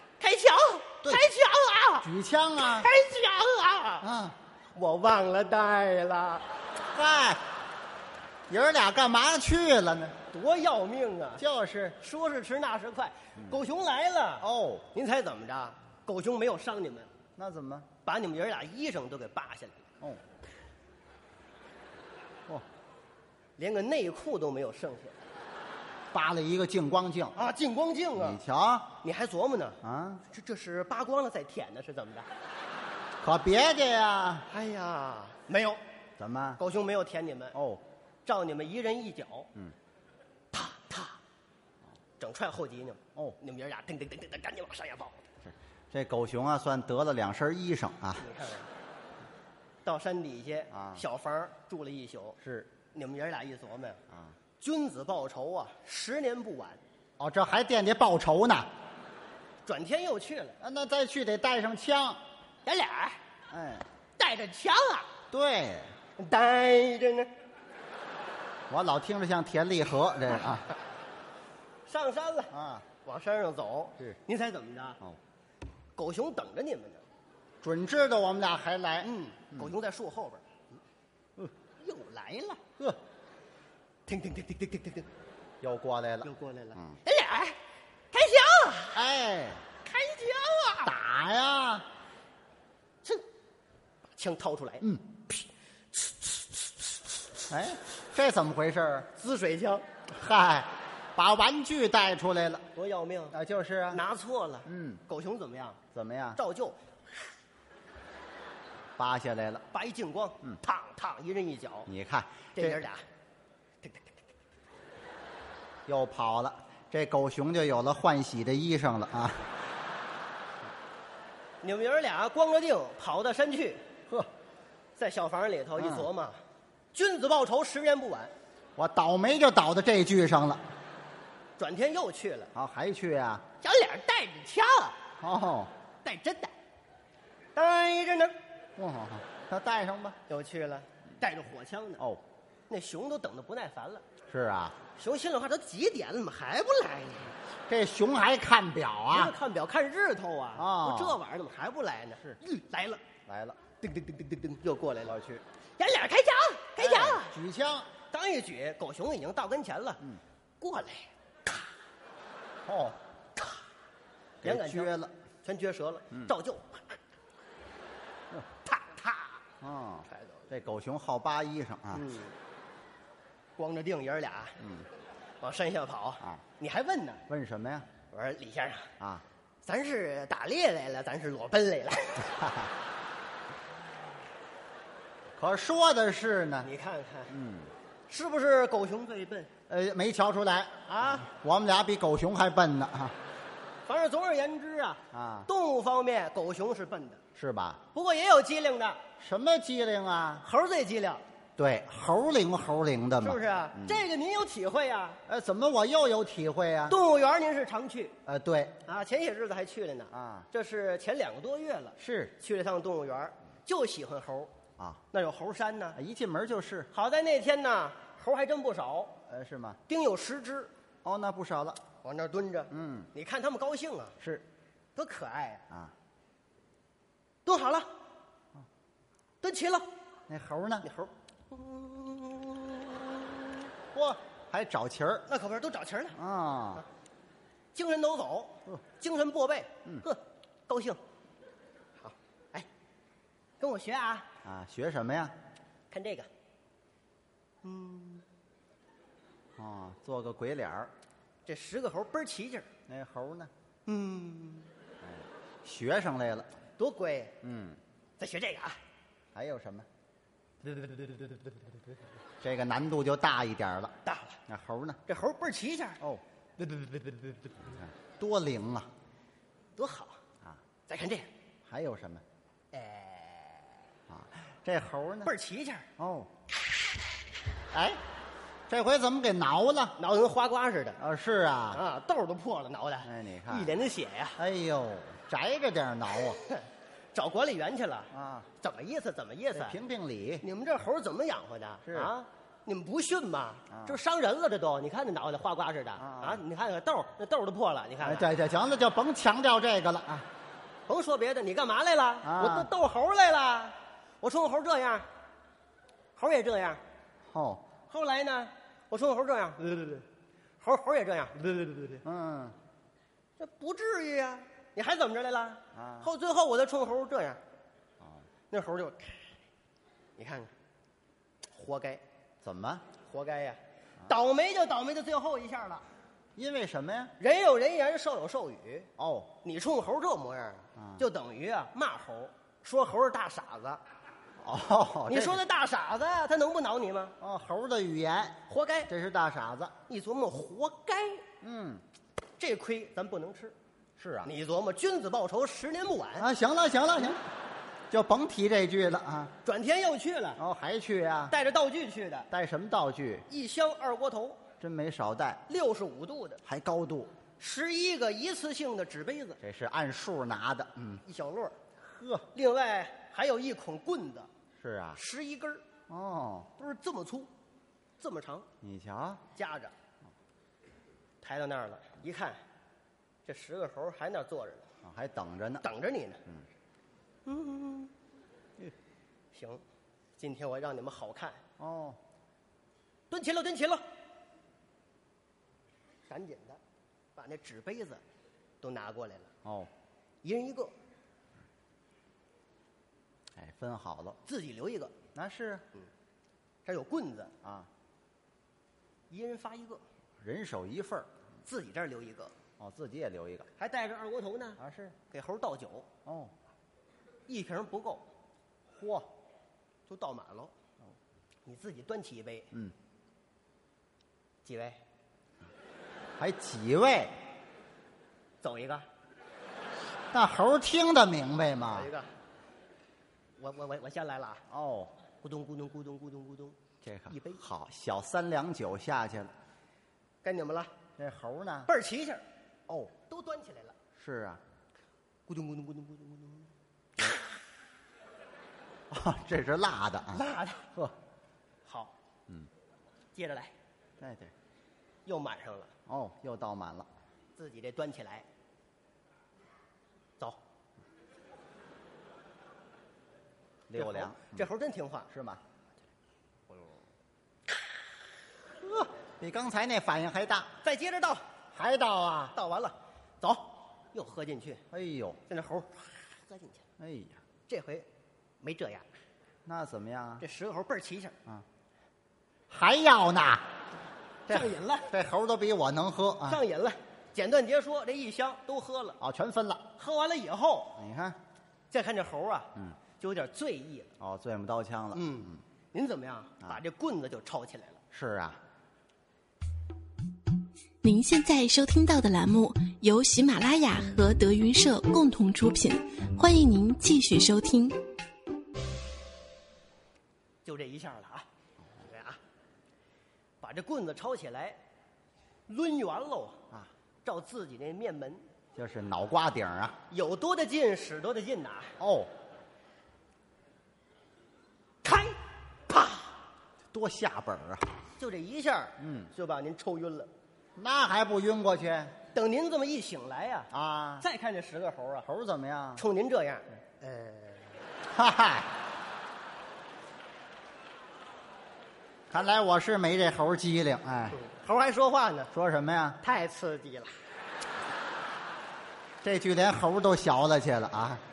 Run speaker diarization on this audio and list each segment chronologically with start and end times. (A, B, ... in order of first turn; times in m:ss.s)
0:00.2-0:04.1 A
0:02.0-0:02.9 B
0:04.0-0:04.4 B
0:04.7-0:06.4 A
0:06.9-0:07.4 B
0:08.5-0:10.2 B
0:10.3-0:11.4 A
0:11.4-0:12.0 B
0:12.0-0:17.1 A
0:14.4-0:14.8 B
0:17.4-0:17.9 B
0:18.0-0:19.8 A
0:23.6-0:25.2 A
0:26.1-0:27.4 B
0:27.4-0:28.4 A
0:28.2-0:29.0 B
0:29.0-0:32.3 A
0:29.8-0:30.2 B
0:33.2-0:34.5 B
0:34.5-0:35.8 A
0:36.2-0:36.6 B
0:36.6-0:37.6 A
0:37.5-0:37.8 B
0:38.2-0:39.5 A
0:40.5-0:41.2 A
0:42.2-0:45.2 A
0:45.4-0:48.2 B
0:48.2-0:48.7 A
0:49.8-0:52.4 A
0:50.7-0:51.0 B
0:52.4-0:52.7 B
0:52.9-0:54.0 A
0:54.1-0:54.4 B
0:54.6-0:56.8 A
0:57.2-0:58.7 B
0:59.6-1:00.6 A
1:00.6-1:02.2 B
1:02.6-1:03.2 A
1:03.5-1:03.9 B
1:04.2-1:05.1 A
1:05.3-1:05.9 B
1:06.2-1:07.3 A
1:08.7-1:10.7 B
1:11.9-1:15.0 A
1:12.5-1:12.9 B
1:16.0-1:17.0 A
1:17.6-1:19.7 B
1:19.0-1:20.8 A
1:21.8-1:22.6 A
1:24.1-1:25.1 A
1:25.6-1:27.0 B
1:26.2-1:27.6 A
1:28.1-1:29.0 A
1:28.9-1:29.6 B
1:29.8-1:30.9 A
1:30.8-1:31.9 B
1:34.2-1:34.9 A
1:37.5-1:39.1 B
1:39.2-1:39.8 A
1:40.1-1:42.7 B
1:42.8-1:43.4 A
1:43.3-1:44.0 B
1:43.9-1:45.8 A
1:44.7-1:45.0 B
1:45.9-1:46.4 B
1:46.4-1:46.8 A
1:49.0-1:49.6 B
1:49.7-1:51.9 A
1:51.9-1:52.8 B
1:52.6-1:53.0 A
1:53.8-1:54.1 A
1:55.9-1:59.5 B
2:01.6-2:03.8 A
2:05.0-2:06.4 A
2:05.8-2:06.1 B
2:06.9-2:08.3 A
2:08.8-2:10.7 B
2:11.6-2:12.5 A
2:12.6-2:13.5 B
2:13.6-2:15.0 A
2:15.2-2:15.7 B
2:16.0-2:16.5 A
2:17.6-2:18.4 A
2:18.8-2:20.2 B
2:20.3-2:22.0 A
2:22.7-2:24.0 A
2:24.3-2:24.8 B
2:25.0-2:27.4 A
2:27.7-2:29.4 B
2:29.1-2:33.0 A
2:30.6-2:31.2 B
2:33.3-2:33.6 B
2:33.8-2:35.2 A
2:35.1-2:35.4 B
2:35.8-2:37.4 A
2:36.8-2:37.9 B
2:38.1-2:40.0 A
2:40.6-2:41.6 A
2:42.7-2:43.0 B
2:44.4-2:45.1 B
2:44.4-2:44.9 A
2:45.4-2:47.0 A
2:48.6-2:49.3 A
2:49.6-2:52.1 B
2:50.1-2:50.5 A
2:51.9-2:52.3 A
2:53.6-2:54.6 A
2:54.6-2:54.9 B
2:55.4-2:57.2 A
2:57.3-2:57.9 B
2:58.1-2:58.9 A
2:59.6-3:02.4 A
3:02.4-3:02.7 B
3:05.4-3:06.7 B
3:06.6-3:07.3 A
3:07.3-3:07.7 B
3:08.1-3:09.5 A
3:09.7-3:13.2 B
3:10.9-3:11.3 A
3:13.9-3:17.2 A
3:15.1-3:15.5 B
3:17.4-3:17.8 B
3:17.9-3:19.0 A
3:19.2-3:20.4 B
3:20.4-3:21.2 A
3:21.6-3:24.0 B
3:23.2-3:25.2 A
3:25.3-3:27.0 B
3:26.9-3:28.2 A
3:28.2-3:28.8 B
3:28.9-3:34.5 A
3:30.1-3:30.5 B
3:32.0-3:32.4 B
3:35.1-3:36.0 A
3:36.0-3:36.9 B
3:36.9-3:39.2 A
3:39.3-3:39.8 B
3:39.9-3:40.7 A
3:41.0-3:41.8 B
3:42.0-3:44.2 A
3:42.7-3:43.1 B
3:45.0-3:45.6 A
3:45.7-3:45.9 B
3:47.4-3:47.9 A
3:49.4-3:49.9 A
3:50.3-3:50.9 B
3:50.8-3:53.7 A
3:53.9-3:55.3 B
3:55.3-3:56.2 A
3:56.1-3:56.8 B
3:57.7-4:01.0 A
4:02.0-4:02.7 A
4:03.6-4:04.3 A
4:04.4-4:05.3 B
4:05.9-4:06.3 A
4:07.6-4:08.2 A
4:09.6-4:10.9 B
4:11.5-4:12.7 A
4:12.9-4:13.5 B
4:13.9-4:14.7 A
4:15.0-4:16.5 B
4:16.8-4:17.4 A
4:17.4-4:17.8 B
4:18.2-4:18.8 A
4:19.3-4:19.9 B
4:20.6-4:21.4 A
4:22.4-4:24.0 B
4:24.1-4:24.4 A
4:24.5-4:25.0 B
4:25.1-4:26.0 A
4:26.6-4:27.5 A
4:27.7-4:28.9 B
4:29.8-4:30.2 A
4:30.9-4:31.3 A
4:31.7-4:32.2 B
4:32.7-4:33.7 A
4:34.1-4:35.3 B
4:35.2-4:35.9 A
4:36.0-4:36.3 B
4:37.7-4:38.0 B
4:38.7-4:40.0 B
4:40.0-4:41.0 A
4:41.0-4:41.8 B
4:41.7-4:44.4 A
4:43.0-4:43.8 B
4:44.4-4:46.4 B
4:46.4-4:49.8 A
4:48.1-4:48.5 B
4:49.5-4:50.4 B
4:50.4-4:58.3 A
4:51.9-4:52.1 B
4:53.7-4:54.0 B
4:56.0-4:56.4 B
4:58.0-5:00.3 B
5:00.9-5:05.1 A
5:02.2-5:02.7 B
5:06.2-5:06.8 A
5:07.3-5:07.7 B
5:07.9-5:10.1 A
5:10.6-5:12.0 A
5:12.0-5:12.6 B
5:13.4-5:17.4 A
5:15.7-5:16.1 B
5:18.5-5:19.3 A
5:20.2-5:20.5 A
5:21.5-5:22.0 A
5:22.4-5:22.8 B
5:23.1-5:25.8 A
5:26.4-5:27.1 B
5:27.2-5:28.9 A
5:29.0-5:29.3 B
5:29.4-5:33.8 A
5:30.8-5:31.0 B
5:34.4-5:35.4 B
5:35.1-5:37.2 A
5:37.2-5:39.8 B
5:38.5-5:38.9 A
5:39.9-5:41.2 A
5:41.4-5:41.8 B
5:42.4-5:43.6 A
5:44.0-5:44.3 B
5:44.2-5:46.3 A
5:46.2-5:47.2 B
5:47.9-5:49.3 B
5:49.4-5:50.4 A
5:50.4-5:51.4 B
5:51.3-5:52.3 A
5:52.3-5:53.3 B
5:53.3-5:54.4 A
5:54.6-5:55.4 B
5:55.5-5:56.4 A
5:56.4-5:57.1 B
5:57.4-5:59.4 A
5:59.4-6:01.0 B
6:01.0-6:01.6 A
6:01.8-6:02.3 B
6:02.3-6:04.3 A
6:04.6-6:05.0 B
6:05.0-6:05.6 A
6:05.9-6:06.5 B
6:06.6-6:07.3 A
6:08.0-6:08.5 A
6:08.6-6:09.2 B
6:09.3-6:09.7 A
6:11.2-6:12.4 A
6:13.2-6:14.7 A
6:14.8-6:15.7 B
6:15.6-6:16.2 A
6:17.3-6:17.9 A
6:19.3-6:19.6 A
6:20.2-6:21.4 A
6:21.6-6:22.0 B
6:23.1-6:23.8 A
6:26.1-6:26.6 A
6:27.2-6:28.0 A
6:28.6-6:29.3 A
6:29.4-6:29.7 B
6:30.2-6:30.7 A
6:33.4-6:34.2 B
6:34.2-6:35.0 A
6:35.2-6:35.6 B
6:36.6-6:37.3 A
6:37.4-6:37.7 B
6:39.1-6:39.8 A
6:40.2-6:41.1 B
6:41.5-6:42.3 A
6:42.6-6:43.5 B
6:43.6-6:45.9 A
6:44.6-6:45.0 B
6:46.1-6:46.3 B
6:47.3-6:48.0 A
6:48.7-6:49.1 B
6:49.9-6:50.5 A
6:51.4-6:52.5 A
6:54.4-6:54.8 A
6:56.2-6:57.2 B
6:58.4-6:58.9 A
7:00.1-7:01.9 B
7:01.7-7:02.1 A
7:03.4-7:04.4 A
7:04.5-7:04.9 B
7:05.2-7:06.6 A
7:06.8-7:09.3 B
7:07.1-7:07.4 A
7:10.2-7:10.7 A
7:11.0-7:11.7 B
7:11.7-7:12.2 A
7:12.9-7:13.8 A
7:14.0-7:14.4 B
7:15.3-7:16.5 A
7:18.9-7:20.2 B
7:20.1-7:20.7 A
7:21.7-7:21.9 A
7:23.1-7:23.5 A
7:24.0-7:24.3 B
7:25.1-7:25.7 A
7:25.9-7:26.9 B
7:27.4-7:28.3 A
7:33.7-7:34.5 B
7:33.7-7:35.1 A
7:35.1-7:35.4 B
7:38.6-7:40.5 B
7:40.6-7:41.2 A
7:41.5-7:42.3 B
7:42.3-7:44.6 A
7:44.7-7:45.2 B
7:45.3-7:46.6 A
7:46.8-7:47.2 B
7:47.5-7:47.9 A
7:48.4-7:48.9 A
7:49.4-7:50.2 B
7:50.2-7:51.2 A
7:52.5-7:53.5 B
7:54.3-7:56.4 B
7:54.3-7:54.9 A
7:56.3-7:59.0 A
7:59.0-7:59.7 B
7:59.8-8:00.8 A
8:00.8-8:01.2 B
8:01.7-8:03.9 A
8:04.0-8:05.4 B
8:05.0-8:07.8 A
8:07.9-8:08.4 B
8:10.8-8:17.8 C
8:20.4-8:21.3 A
8:21.8-8:22.2 A
8:23.4-8:24.6 A
8:25.5-8:26.4 A
8:27.0-8:28.2 A
8:28.6-8:29.8 B
8:29.9-8:31.7 A
8:31.8-8:32.1 B
8:34.8-8:35.2 A
8:35.7-8:36.1 A
8:36.7-8:37.7 B
8:38.0-8:40.1 A
8:38.8-8:39.1 B
8:40.6-8:42.0 B
8:42.1-8:45.1 A
8:43.5-8:44.1 B
8:45.0-8:45.8 B
8:45.8-8:47.5 A
8:47.9-8:48.5 B
8:52.1-8:54.2 B
8:54.1-8:55.3 A
8:55.3-8:56.0 B
8:56.0-8:57.0 A
8:59.0-9:01.0 B